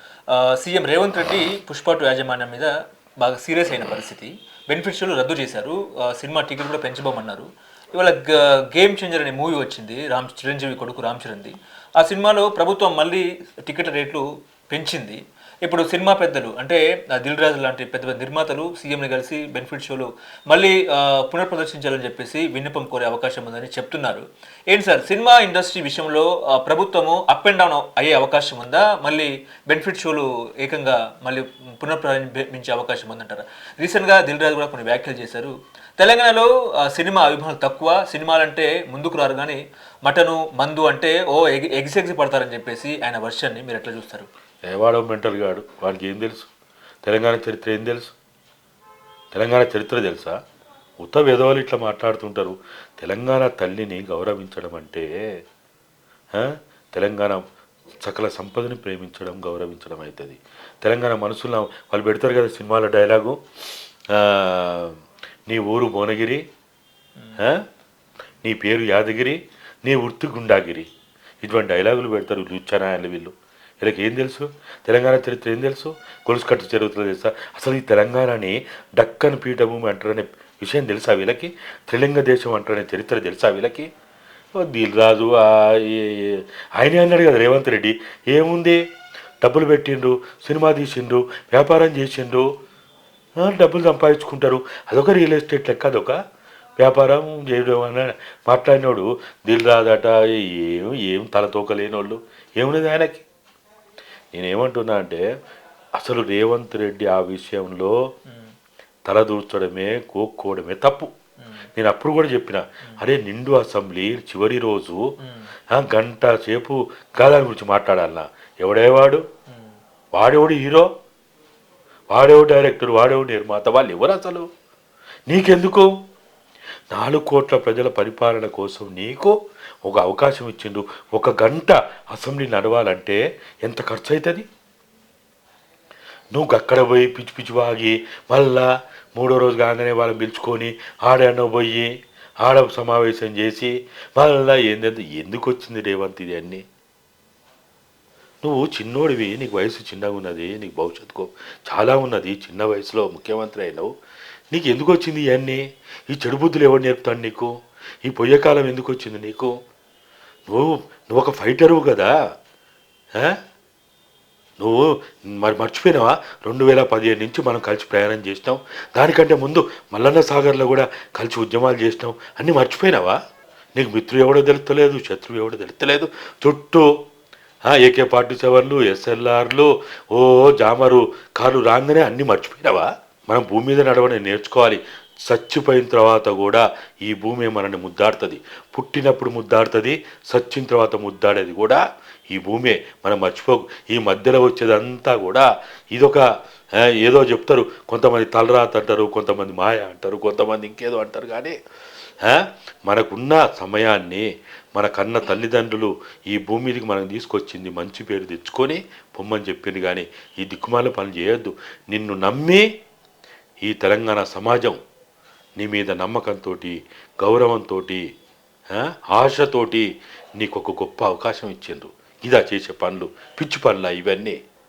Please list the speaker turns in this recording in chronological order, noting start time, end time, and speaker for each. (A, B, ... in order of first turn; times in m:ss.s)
0:00.3-0:44.3 A
0:44.6-0:46.5 B
0:47.0-0:48.1 B
0:49.3-0:50.4 B
0:51.0-0:55.1 B
0:56.3-0:57.4 B
0:58.0-1:03.4 B
1:04.1-1:04.9 B
1:05.5-1:06.4 B
1:08.4-1:10.9 B
1:11.4-1:23.9 B
1:24.5-1:28.8 B
1:29.4-1:32.4 B
1:33.4-1:36.2 B
1:36.8-1:43.2 B
1:44.3-1:45.2 B
1:46.0-1:47.9 B
1:48.3-1:48.5 A
1:49.0-1:51.1 B
1:51.4-1:51.7 A
1:51.8-1:55.1 B
1:55.2-1:55.5 A
1:55.7-1:59.2 B
1:59.5-1:59.8 A
2:00.1-2:00.9 B
2:02.1-2:04.5 B
2:05.3-2:05.9 B
2:06.9-2:14.4 B
2:16.3-2:21.9 B
2:22.4-2:26.6 B
2:28.4-2:33.9 B
2:34.5-2:37.5 B
2:38.0-2:39.5 B
2:40.5-2:42.1 B
2:44.6-2:53.2 B
2:53.8-2:56.8 B
2:57.7-3:16.2 B
3:16.9-3:21.6 B
3:22.2-3:32.6 B
3:33.6-3:34.8 B
3:35.6-3:38.0 B
3:38.7-3:44.4 B